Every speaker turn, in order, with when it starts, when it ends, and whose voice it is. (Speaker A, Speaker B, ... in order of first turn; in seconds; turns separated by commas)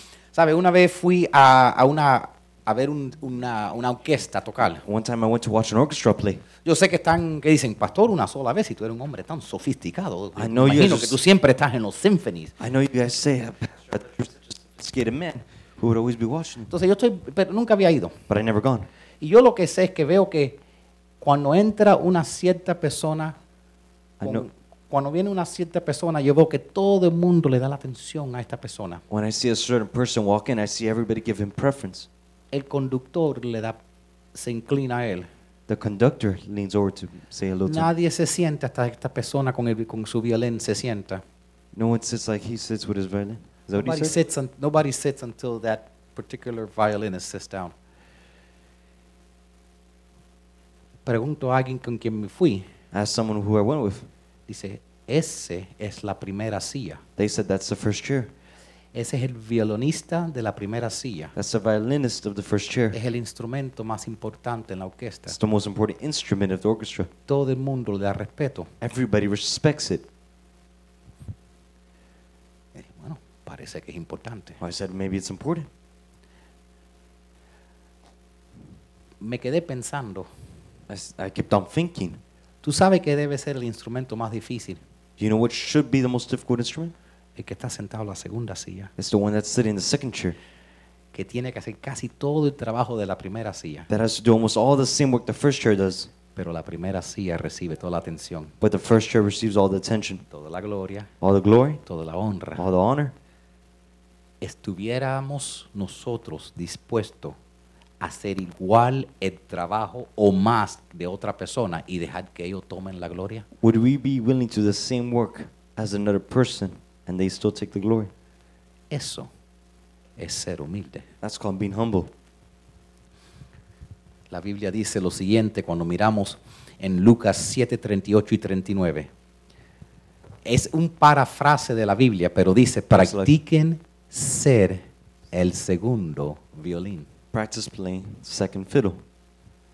Speaker A: 0.3-4.8, Speaker B: 4.8-6.4, Speaker A: 6.6-12.5, Speaker B: 10.4-11.2, Speaker B: 12.6-16.7, Speaker A: 16.7-18.2, Speaker B: 18.3-18.9, Speaker A: 19.2-20.6, Speaker A: 21.2-23.4, Speaker B: 24.2-24.5, Speaker A: 24.2-29.0, Speaker B: 29.1-32.1, Speaker A: 32.5-33.8, Speaker A: 34.3-35.3, Speaker B: 35.7-37.9, Speaker A: 37.7-41.2, Speaker B: 41.7-44.2, Speaker A: 43.8-47.7, Speaker A: 51.1-52.7, Speaker B: 52.9-54.1, Speaker A: 54.5-57.0, Speaker B: 57.2-58.3, Speaker A: 58.9-61.3, Speaker B: 61.4-63.0, Speaker A: 62.9-65.4, Speaker B: 65.3-67.1, Speaker A: 67.3-68.7, Speaker B: 68.8-70.1, Speaker A: 72.8-74.6, Speaker B: 74.6-75.7, Speaker A: 79.2-80.3, Speaker B: 80.9-82.2, Speaker A: 82.6-84.8, Speaker B: 85.2-86.9, Speaker A: 87.4-88.9, Speaker B: 89.0-90.4, Speaker A: 91.1-93.9, Speaker B: 93.9-96.1, Speaker A: 96.3-98.5, Speaker B: 98.6-100.2, Speaker A: 100.3-101.1, Speaker B: 101.2-101.8, Speaker A: 101.8-102.7, Speaker B: 102.6-103.1, Speaker A: 104.4-107.4, Speaker A: 108.0-113.5, Speaker B: 113.6-118.1, Speaker A: 118.9-119.3, Speaker A: 120.2-121.0, Speaker B: 121.2-122.1, Speaker A: 124.3-129.1, Speaker A: 130.4-137.1, Speaker B: 132.9-133.3, Speaker B: 137.3-139.0